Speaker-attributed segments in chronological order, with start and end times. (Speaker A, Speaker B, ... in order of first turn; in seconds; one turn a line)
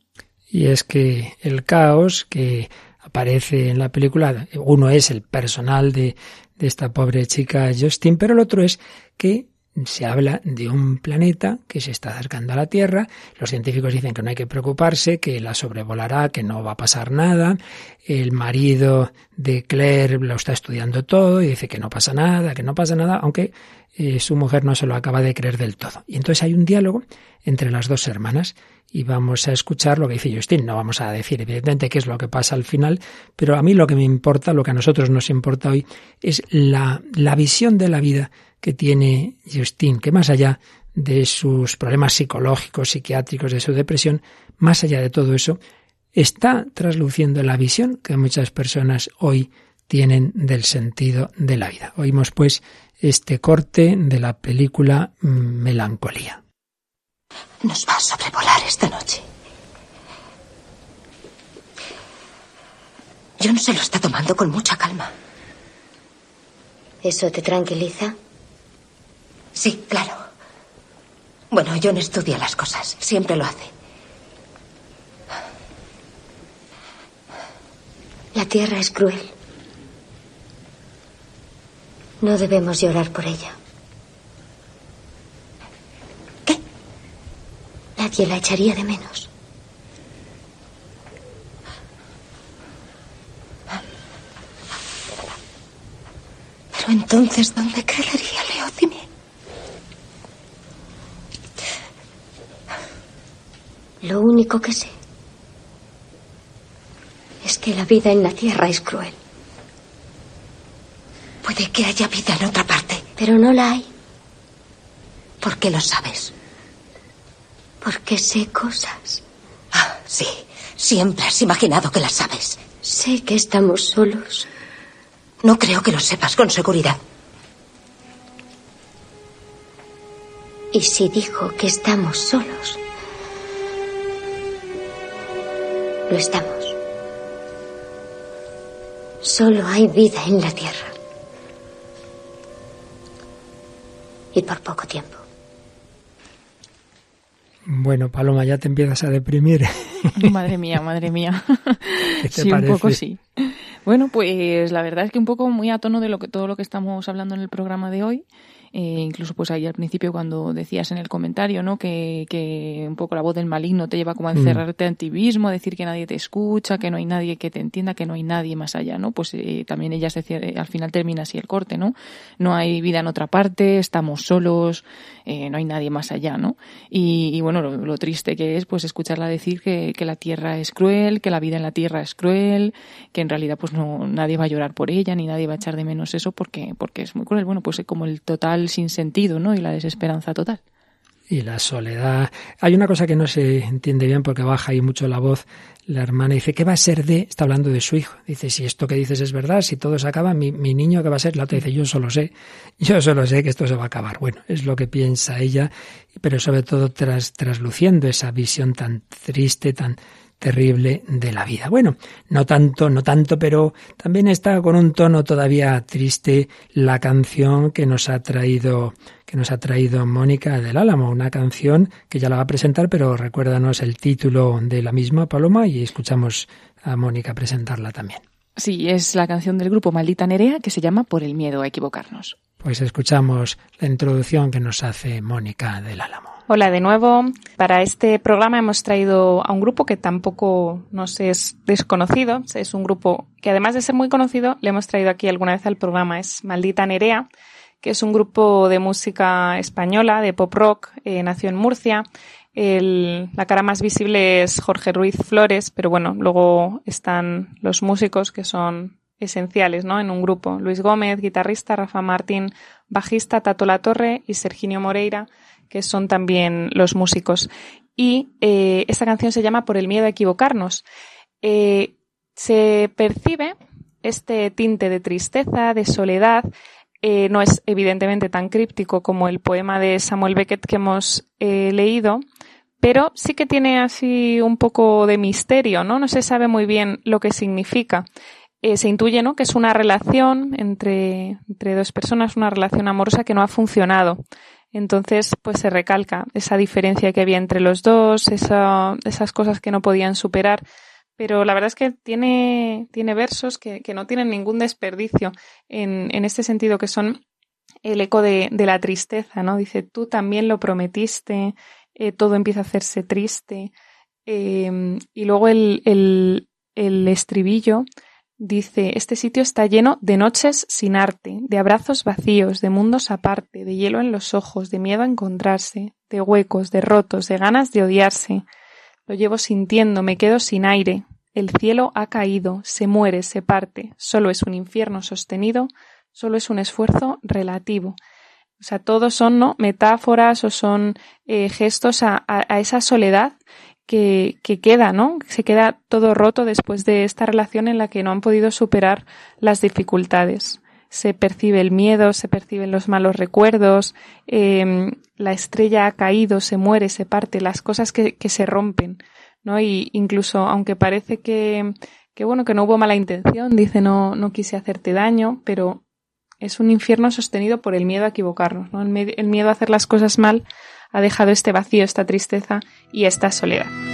Speaker A: 0.5-45.6
Speaker A: 46.1-56.4
Speaker B: 57.6-59.2
Speaker B: 63.4-65.1
Speaker C: 67.0-68.2
Speaker B: 69.5-70.2
Speaker B: 71.5-73.7
Speaker C: 78.3-79.3
Speaker C: 82.2-83.5
Speaker C: 88.0-89.3
Speaker B: 96.7-99.0
Speaker C: 104.0-104.9
Speaker C: 107.4-109.2
Speaker B: 111.4-113.1
Speaker C: 113.2-113.9
Speaker B: 115.4-116.3
Speaker C: 117.8-119.2
Speaker B: 119.7-122.6
Speaker C: 122.8-124.5
Speaker B: 125.4-127.0
Speaker C: 130.7-132.8
Speaker C: 136.1-136.8
Speaker C: 139.2-140.9
Speaker C: 144.3-145.2
Speaker A: 147.7-150.3
Speaker D: 150.1-190.6
Speaker A: 152.2-153.0
Speaker A: 164.3-164.6
Speaker A: 191.3-228.2
Speaker D: 228.6-232.3
Speaker A: 232.6-236.4
Speaker E: 236.5-247.3
Speaker E: 247.8-270.8
Speaker E: 271.4-276.5
Speaker E: 277.0-282.2
Speaker E: 282.8-288.1
Speaker E: 288.6-294.2
Speaker E: 294.7-300.6
Speaker E: 301.2-307.2
Speaker E: 307.8-313.7
Speaker E: 314.2-317.9
Speaker E: 318.4-328.4
Speaker E: 329.1-338.0
Speaker E: 338.6-365.8
Speaker E: 366.4-373.7